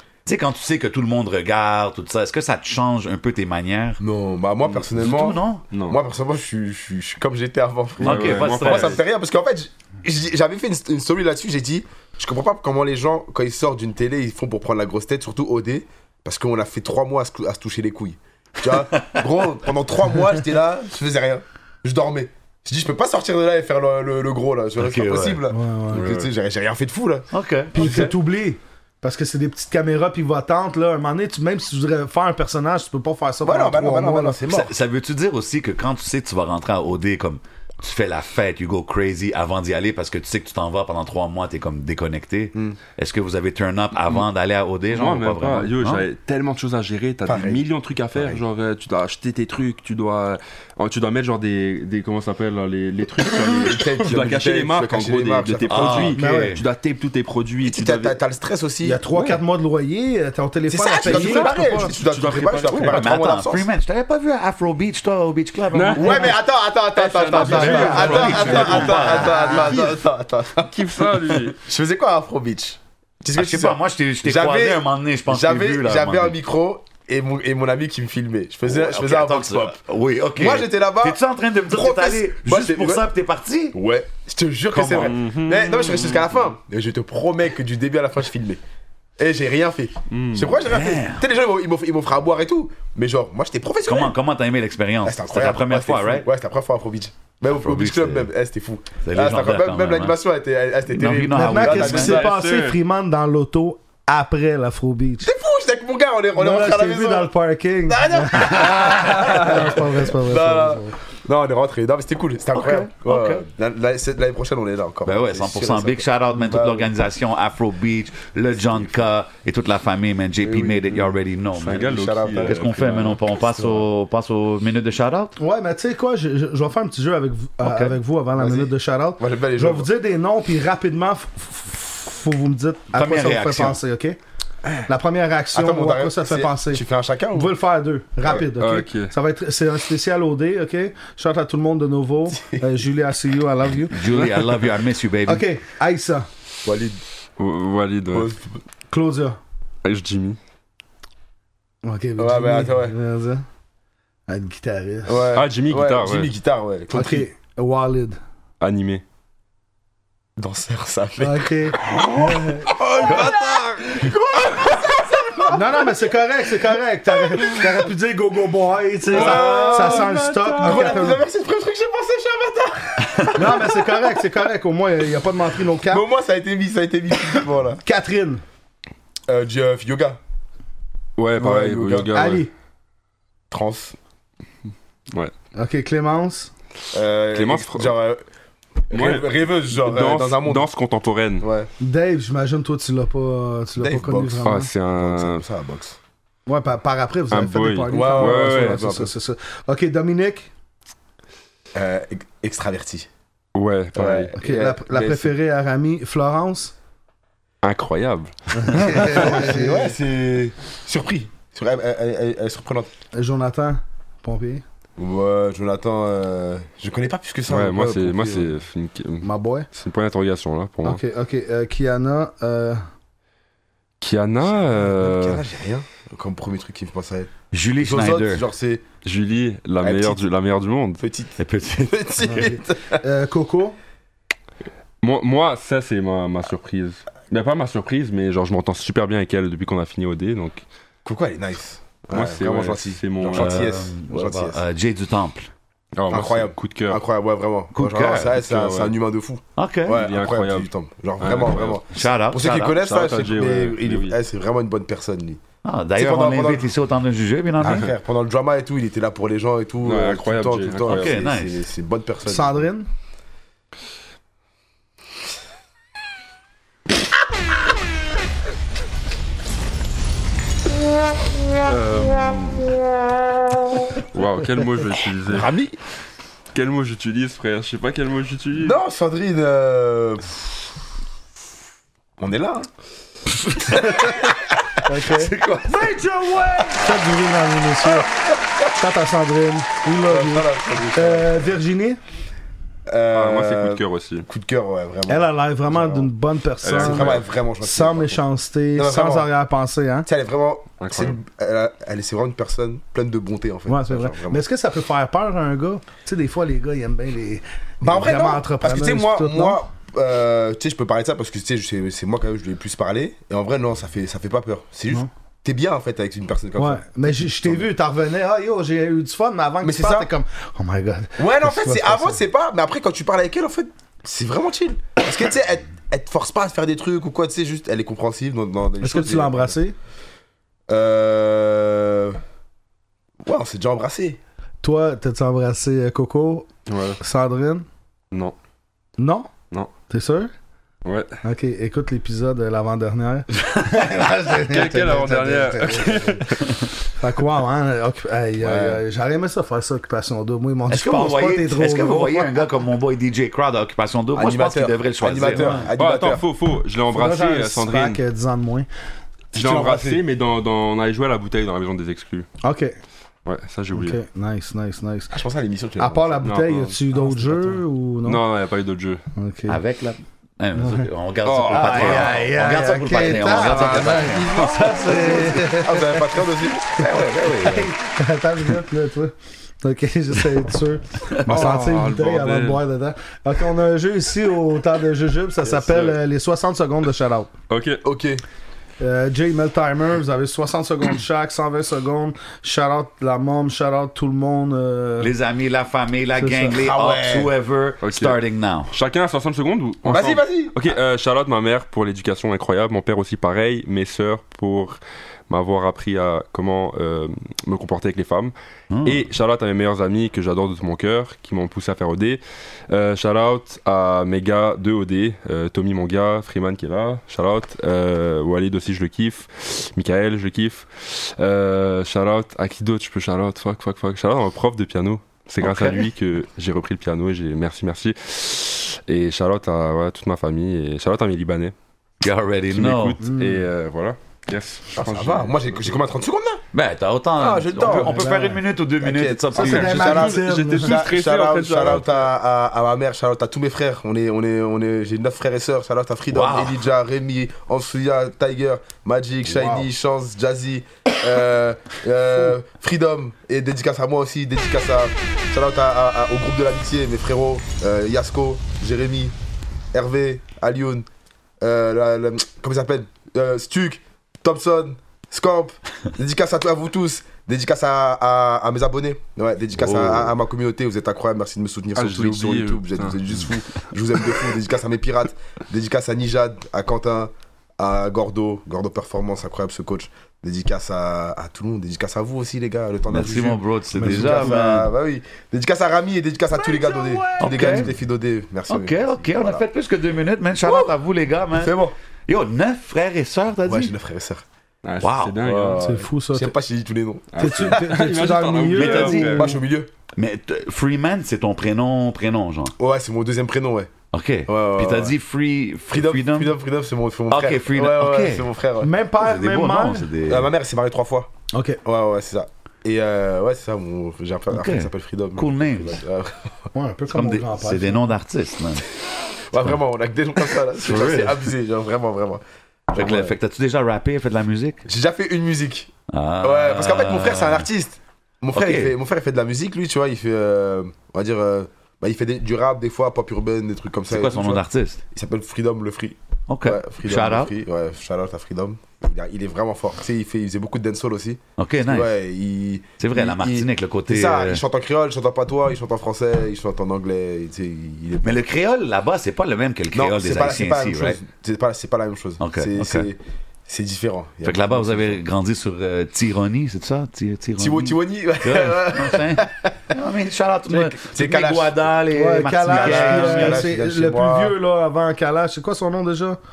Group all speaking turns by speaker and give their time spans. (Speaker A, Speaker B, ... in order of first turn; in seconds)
Speaker A: 0.3-4.0, 5.0-5.6, 8.0-9.0, 24.8-25.4, 27.3-28.1, 34.5-46.0, 55.7-56.6, 62.7-66.3, 67.4-69.9, 73.3-76.4, 78.7-83.8, 84.7-85.2, 90.7-91.2, 93.9-96.3, 97.5-98.3, 99.0-100.2, 100.9-102.2, 112.5-113.4, 115.0-125.3, 132.9-133.8, 143.9-145.4, 227.5-228.4, 231.4-232.5, 243.3-245.5, 247.8-248.4, 249.6-250.0, 251.9-252.8, 255.6-257.9, 260.9-261.6, 283.5-283.8, 285.2-286.0, 350.7-355.7, 369.5-374.4, 376.8-377.7, 395.0-398.7, 408.7-409.0, 425.4-425.8, 432.0-433.0, 436.5-439.9, 446.1-446.6, 469.6-470.1, 482.9-484.7, 487.2-487.7, 488.5-493.7, 494.8-495.2, 498.6-499.2, 499.9-502.5, 503.9-506.3, 507.1-508.3, 509.0-510.3, 514.3-515.8, 516.9-518.7, 520.6-521.2, 522.7-524.7, 525.9-527.5, 528.3-528.8, 533.9-534.8, 536.3-537.3, 541.4-541.9, 542.8-544.4, 548.0-551.0, 552.2-552.9, 554.2-563.5
Speaker B: 4.0-28.1, 33.4-34.7, 47.3-48.4, 53.4-56.2, 57.6-59.0, 60.7-63.7, 66.0-79.8, 80.4-83.1, 83.7-88.6, 89.2-94.2, 95.0-102.3, 105.2-107.3, 107.9-116.9, 120.4-121.2, 121.7-123.9, 127.7-129.9, 135.5-137.5, 142.3-142.7, 146.6-147.0, 148.1-148.6, 152.2-153.0, 155.1-157.3, 160.4-166.1, 167.1-167.9, 169.1-174.1, 175.9-177.8, 179.3-180.2, 181.4-182.2, 183.5-184.0, 186.9-188.2, 188.9-190.7, 191.4-191.7, 193.8-196.0, 197.9-199.1, 201.8-203.1, 203.9-205.3, 208.9-212.9, 215.0-218.5, 224.4-228.8, 229.8-230.2, 231.0-233.0, 241.1-244.6, 246.1-255.4, 256.0-256.7, 257.6-262.6, 275.3-275.8, 278.6-280.3, 282.2-282.7, 283.6-284.5, 290.0-291.5, 292.9-296.1, 296.8-298.2, 298.8-299.3, 300.1-304.4, 307.8-317.7, 319.6-320.1, 321.2-329.6, 330.7-332.2, 333.2-334.2, 348.4-348.8, 354.1-356.2, 359.3-360.0, 365.1-366.2, 374.9-377.0, 381.3-381.7, 385.4-386.0, 387.8-388.2, 396.6-397.3, 399.8-400.6, 434.7-436.4, 437.2-459.1, 459.7-460.9, 461.4-489.4, 490.4-490.7, 491.3-491.8, 493.4-494.2, 495.2-497.7, 499.1-499.7, 502.6-503.7, 504.3-504.9, 505.7-508.7, 510.1-511.1, 511.6-516.3, 519.3-523.2, 524.7-548.2, 549.7-555.0, 557.4-559.5, 560.5-561.7, 562.5-564.4
Speaker C: 5.7-6.0, 8.0-9.0, 25.9-26.3, 44.9-58.2, 59.1-59.4, 61.0-63.1, 65.7-66.3, 66.9-69.2, 70.6-71.6, 85.0-86.3, 90.1-90.6, 101.8-102.8, 109.0-109.6, 121.6-123.2, 138.3-139.1, 147.4-148.3, 149.8-150.4, 155.3-156.3, 158.6-159.0, 163.0-163.8, 169.1-171.1, 181.2-182.4, 187.3-187.9, 188.9-191.5, 194.4-195.4, 197.3-198.9, 203.6-204.3, 207.6-209.5, 217.5-221.0, 224.0-225.4, 229.0-231.0, 235.0-240.6, 242.1-243.6, 246.0-247.0, 248.4-248.9, 249.9-251.8, 252.7-254.2, 257.6-257.9, 259.8-261.2, 271.6-272.8, 274.0-275.5, 276.5-278.8, 293.1-294.3, 296.6-297.2, 300.8-301.2, 336.7-337.0, 340.9-341.2, 344.3-346.8, 355.8-358.0, 359.3-362.3, 363.2-364.0, 366.2-369.0, 371.2-372.3, 373.4-375.4, 381.3-382.6, 387.5-387.8, 397.8-408.3, 408.9-431.5, 432.5-435.5, 439.4-442.1, 471.8-473.0, 494.6-495.8, 497.1-499.4
Speaker D: 25.5-26.1, 27.8-34.5, 56.1-56.6, 58.8-61.9, 67.4-69.5, 101.3-105.3, 106.4-111.0, 125.4-134.2, 134.9-136.8, 137.3-144.2, 145.3-146.3, 148.9-149.4, 151.8-153.4, 154.3-155.3, 156.9-158.2, 161.2-162.7, 165.5-171.2, 173.3-176.1, 177.8-178.4, 182.1-182.5, 185.6-186.5, 191.8-194.7, 196.5-200.5, 204.4-206.7, 208.6-209.9, 213.1-214.6, 219.2-219.7, 220.8-222.8, 232.3-233.8, 262.3-262.9, 284.9-288.1, 288.7-292.0, 295.1-300.1, 303.7-309.6, 316.6-322.2, 328.8-329.8, 334.6-336.5, 337.0-337.7, 339.0-339.3, 339.9-340.3, 341.2-346.3, 347.0-352.4, 356.9-358.7, 362.4-362.8, 363.7-365.2, 365.8-368.2, 369.2-369.6, 370.6-370.9, 371.5-376.2, 377.4-387.3, 388.8-395.1, 396.2-396.6, 433.0-433.4, 437.7-438.4, 439.4-440.8, 449.3-449.7, 483.8-484.4, 486.4-487.6, 495.6-496.3, 497.2-499.4, 508.6-509.9, 511.3-511.6, 516.5-517.9, 561.9-566.2